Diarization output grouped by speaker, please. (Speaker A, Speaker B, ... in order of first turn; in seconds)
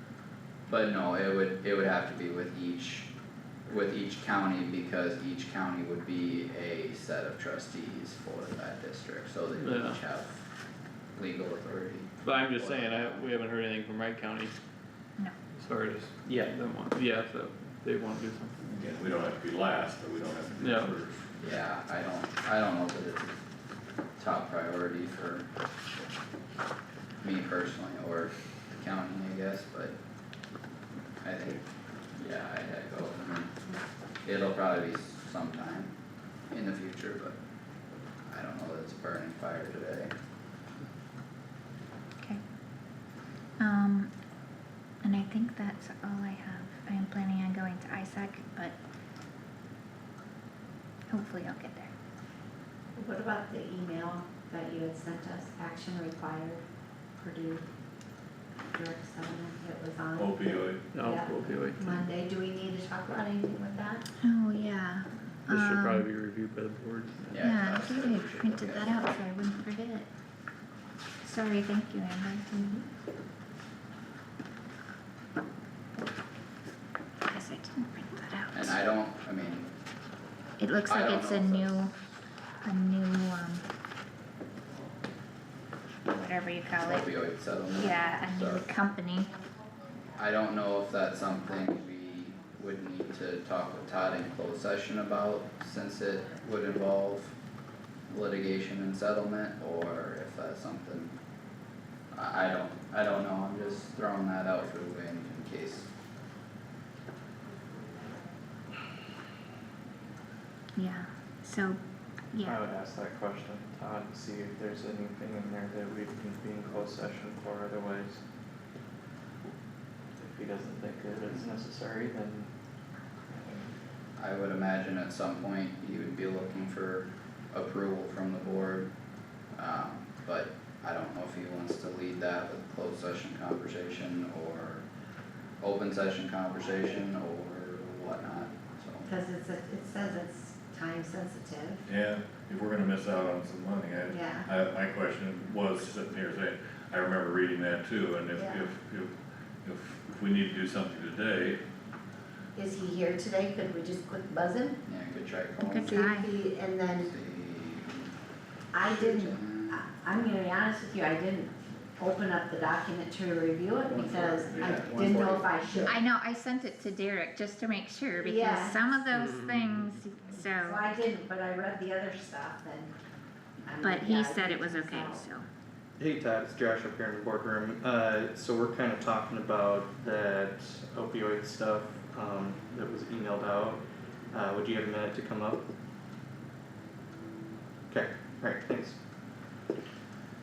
Speaker A: 0.7-3.1, 3.7-10.4, 11.2-13.2, 21.4-23.3, 24.2-25.5, 27.2-30.0, 31.2-31.6, 32.2-33.5, 34.2-35.9, 36.5-37.4, 38.3-40.1, 67.3-69.0, 78.5-79.7, 80.9-81.8, 86.8-88.7, 90.2-97.3, 98.1-101.2, 102.1-105.9, 124.2-128.9, 129.5-134.8, 135.6-139.1, 154.9-156.0, 157.0-158.1, 158.8-159.9, 163.9-165.5
Speaker B: 9.6-10.0, 12.2-14.6, 15.6-18.6, 20.6-20.9, 60.9-62.0, 65.5-67.5
Speaker C: 18.6-21.2, 60.2-60.8, 141.9-151.6
Speaker D: 43.6-44.1, 45.0-48.8, 51.1-51.9, 64.2-66.1, 67.4-70.1, 71.2-72.8, 77.2-78.8, 80.6-81.9, 82.6-83.7, 86.1-87.1, 87.8-89.3, 110.8-111.8, 112.3-112.6, 155.6-156.3, 165.9-170.9, 173.8-175.5
Speaker E: 53.0-56.6, 57.2-57.7, 58.7-64.1, 139.1-141.9, 144.1-144.5, 148.4-148.7, 152.6-154.8, 155.8-157.1, 158.7-166.0, 168.2-168.9, 170.6-172.9, 173.6-175.2
Speaker F: 112.4-118.2, 120.2-122.5, 123.3-123.7, 176.0-185.7, 187.9-189.0